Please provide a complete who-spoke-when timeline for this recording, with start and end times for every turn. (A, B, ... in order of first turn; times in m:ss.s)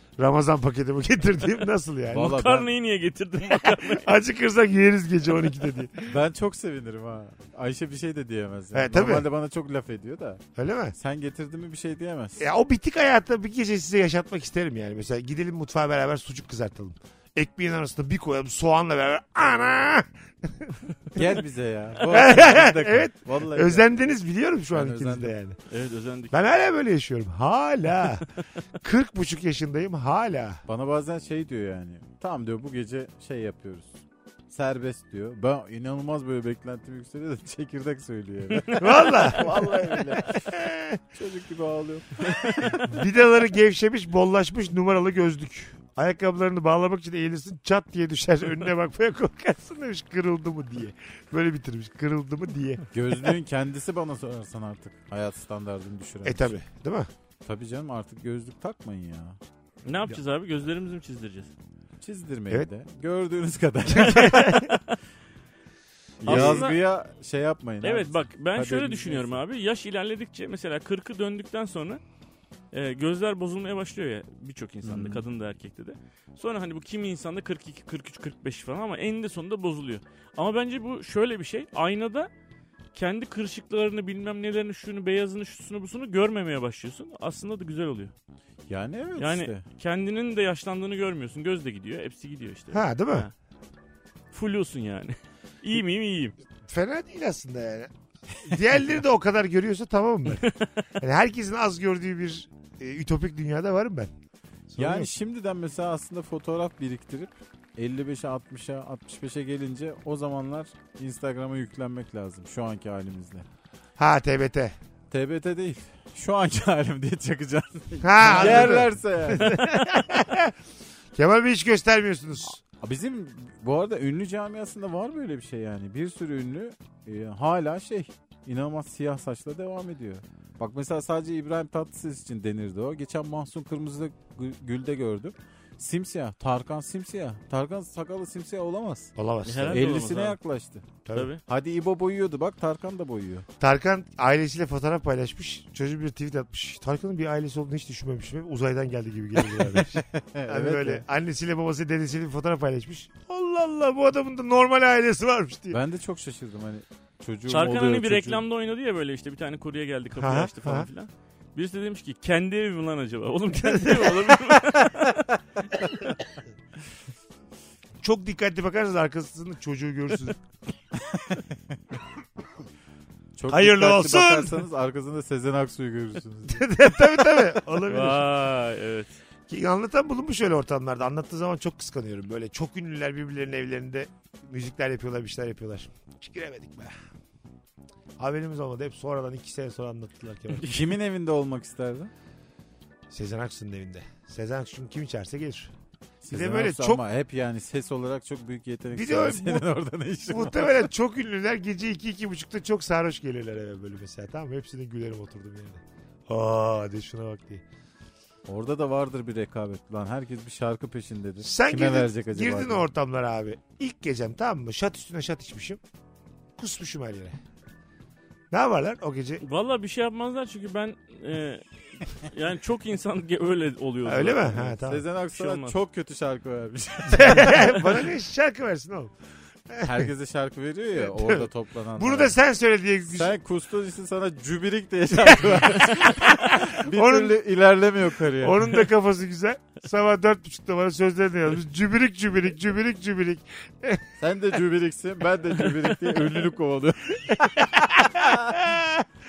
0:00.2-0:02.4 A
0:02.1-0:02.7 B
0:02.2-0:04.1 C
0:03.5-0:06.1 A
0:06.1-0:10.4 B
0:08.7-0:09.2 A
0:10.6-0:10.9 A
0:10.9-0:12.4 B
0:12.4-0:21.3 A
0:21.1-0:24.0 B
0:22.1-0:25.6 A
0:24.7-0:25.3 B
0:25.7-0:26.3 C
0:26.3-0:28.3 A
0:28.8-0:30.6 A
0:30.7-0:34.0 B
0:34.5-0:40.5 B
0:38.7-0:41.0 A
0:41.1-0:42.8 B
0:42.3-0:42.7 C
0:42.8-0:53.3 A
0:52.9-0:56.6 B
0:56.2-0:57.1 A
0:57.4-0:59.4 B
0:59.8-1:01.5 C
1:02.0-1:04.6 B
1:03.9-1:04.7 A
1:04.3-1:04.9 C
1:06.2-1:09.4 B
1:06.2-1:06.7 A
1:06.2-1:06.8 C
1:07.8-1:12.0 C
1:12.7-1:22.3 C
1:14.8-1:15.3 B
1:22.9-1:28.1 C
1:28.7-1:29.6 B
1:29.2-1:33.3 C
1:32.7-1:33.3 A
1:34.3-1:36.4 C
1:36.7-1:40.4 A
1:40.3-1:40.8 C
1:41.0-1:44.1 A
1:44.7-1:45.1 A
1:44.8-1:53.5 B
1:54.0-1:54.8 A
1:55.1-1:59.6 B
1:58.0-2:00.5 A
2:01.2-2:02.6 A
2:02.7-2:19.1 B
2:19.2-2:20.0 A
2:19.4-2:20.4 C
2:19.7-2:20.9 B
2:21.0-2:21.3 A
2:21.1-2:21.4 C
2:21.5-2:23.5 B
2:23.6-2:35.8 A
2:29.6-2:31.0 B
2:35.7-2:38.4 B
2:37.5-2:45.3 C
2:40.2-2:40.9 A
2:43.6-2:44.4 A
2:48.0-2:50.4 A
2:51.1-2:51.4 B
2:53.4-2:56.7 B
2:53.5-2:54.6 A
2:56.5-2:58.2 A
2:57.9-2:59.1 C
2:59.5-3:07.0 A
3:08.2-3:10.7 A
3:10.6-3:12.1 B
3:13.1-3:15.7 A
3:16.2-3:20.9 B
3:16.3-3:17.0 A
3:18.9-3:19.7 A
3:20.3-3:27.6 A
3:28.5-3:32.9 B
3:31.4-3:35.8 A
3:36.6-3:37.4 A
3:38.5-3:39.4 A
3:39.4-3:44.6 C
3:44.0-3:45.0 A
3:44.6-3:48.0 B
3:45.3-3:45.8 C
3:47.1-3:49.1 A
3:49.7-3:50.0 A
3:49.8-3:52.4 B
3:51.0-3:53.3 A
3:53.1-3:58.8 B
3:55.2-3:57.3 A
3:58.4-4:04.1 A
4:04.2-4:08.5 B
4:07.2-4:09.1 A